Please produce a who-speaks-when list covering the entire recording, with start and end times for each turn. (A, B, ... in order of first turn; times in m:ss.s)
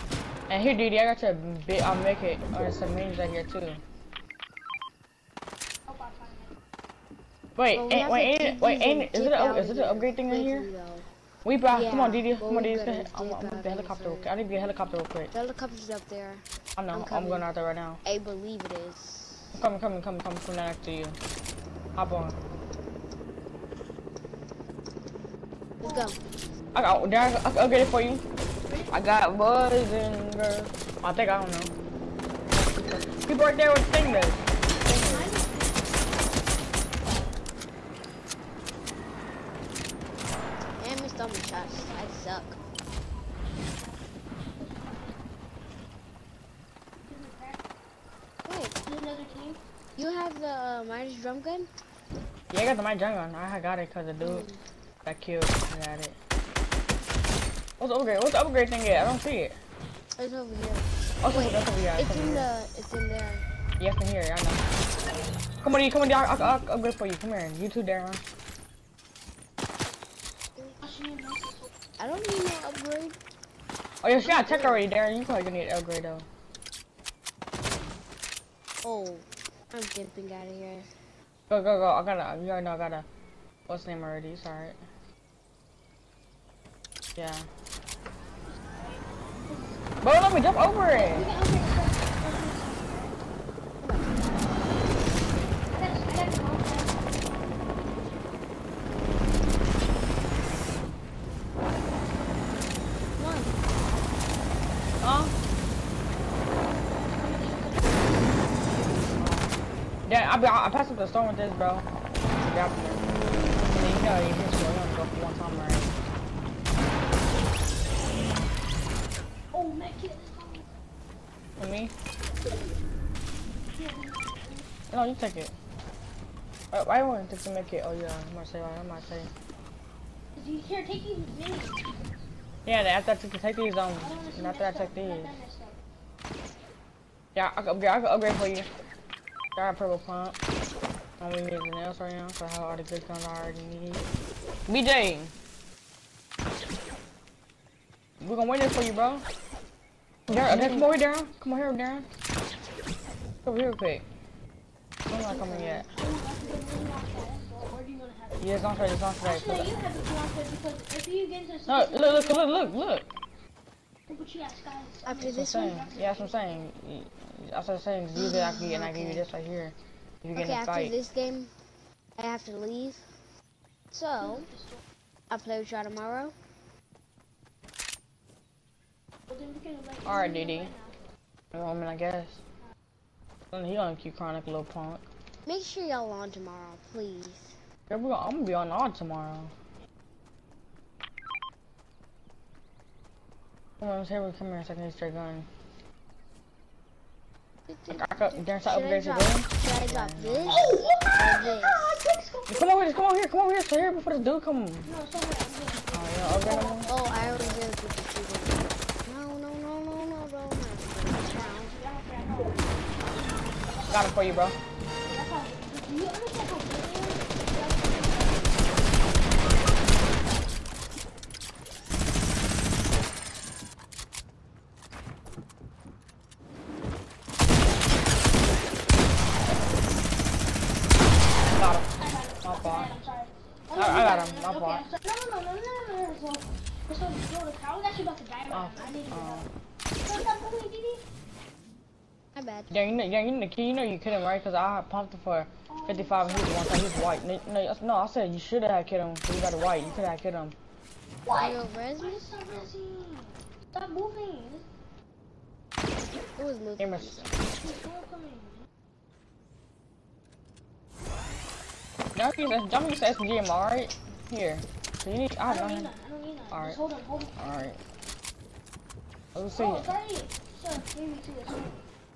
0:00.5-0:03.8 A
0:05.9-0:06.5 B
0:07.6-0:10.7 A
0:07.7-0:11.1 C
0:11.4-0:15.3 A
0:11.7-0:14.3 C
0:15.3-0:17.4 C
0:16.8-0:18.0 A
0:18.0-0:19.6 C
0:19.6-0:21.2 A
0:22.0-0:22.4 A
0:25.8-0:26.2 C
0:26.7-0:28.2 A
0:28.6-0:28.9 B
0:28.9-0:31.7 A
0:32.8-0:35.3 A
0:34.9-0:36.1 B
0:40.8-0:42.6 C
0:41.6-0:42.3 B
0:44.5-0:45.2 B
0:47.0-0:47.6 B
0:48.4-0:48.8 C
0:48.9-0:49.6 B
0:50.0-0:51.7 C
0:52.5-0:54.4 A
0:54.2-0:54.6 C
0:55.0-0:56.2 A
0:57.8-0:59.6 A
1:00.2-1:03.5 C
1:01.2-1:02.5 A
1:03.8-1:04.6 A
1:05.6-1:08.2 A
1:10.8-1:11.7 B
1:12.0-1:13.2 C
1:14.0-1:16.3 A
1:14.2-1:14.8 C
1:18.8-1:20.9 C
1:21.5-1:23.1 A
1:23.7-1:24.8 A
1:27.2-1:27.5 A
1:28.8-1:29.8 B
1:30.0-1:31.3 A
1:31.0-1:33.1 B
1:34.0-1:34.6 B
1:35.7-1:37.0 B
1:43.2-1:43.5 C
1:45.0-1:45.3 A
1:47.0-1:49.0 B
1:49.2-1:49.5 A
1:50.1-1:56.0 A
1:59.5-2:00.7 B
2:01.6-2:01.9 A
2:03.7-2:04.6 B
2:04.9-2:05.5 A
2:06.7-2:09.3 A
2:10.4-2:12.1 B
2:12.7-2:15.4 A
2:14.0-2:15.8 B
2:17.4-2:18.7 A
2:19.6-2:20.4 A
2:21.2-2:24.1 A
2:24.7-2:25.3 A
2:28.2-2:29.2 A
2:30.3-2:32.1 A
2:33.4-2:34.0 A
2:35.1-2:35.9 A
2:35.2-2:35.9 C
2:35.9-2:38.6 B
2:38.4-2:39.7 A
2:39.2-2:42.9 B
2:41.7-2:43.1 A
2:44.1-2:46.4 B
2:45.0-2:45.9 C
2:45.2-2:50.9 A
2:48.2-2:49.3 C
2:50.4-2:51.5 C
2:52.2-2:53.1 C
2:53.9-2:54.5 C
2:54.2-2:54.8 B
2:55.3-2:56.4 C
2:59.3-3:01.0 B
3:00.0-3:00.7 A
3:01.5-3:02.4 A
3:03.5-3:05.0 A
3:05.5-3:07.6 C
3:07.9-3:09.5 A
3:13.8-3:15.5 A
3:17.7-3:22.1 C
3:17.9-3:20.7 A
3:20.5-3:22.8 B
3:22.5-3:24.9 A
3:24.9-3:27.6 B
3:25.9-3:26.9 A
3:26.9-3:31.8 C
3:31.3-3:34.3 B
3:33.9-3:34.6 A
3:35.0-3:38.6 B
3:51.5-3:51.9 A
3:52.0-3:59.5 B
3:52.4-3:52.9 A
3:53.8-3:54.8 A
3:58.5-3:59.5 A
4:00.0-4:01.0 B
4:02.4-4:02.8 C
4:02.7-4:10.6 A
4:05.7-4:07.6 B
4:09.6-4:10.1 B
4:11.3-4:14.7 B
4:11.4-4:12.3 C
4:16.4-4:17.4 C
4:16.8-4:17.3 A
4:17.6-4:18.7 B
4:22.2-4:25.9 A
4:25.5-4:27.4 B
4:26.5-4:26.8 A
4:27.4-4:27.8 A
4:29.4-4:29.9 A
4:29.5-4:31.8 B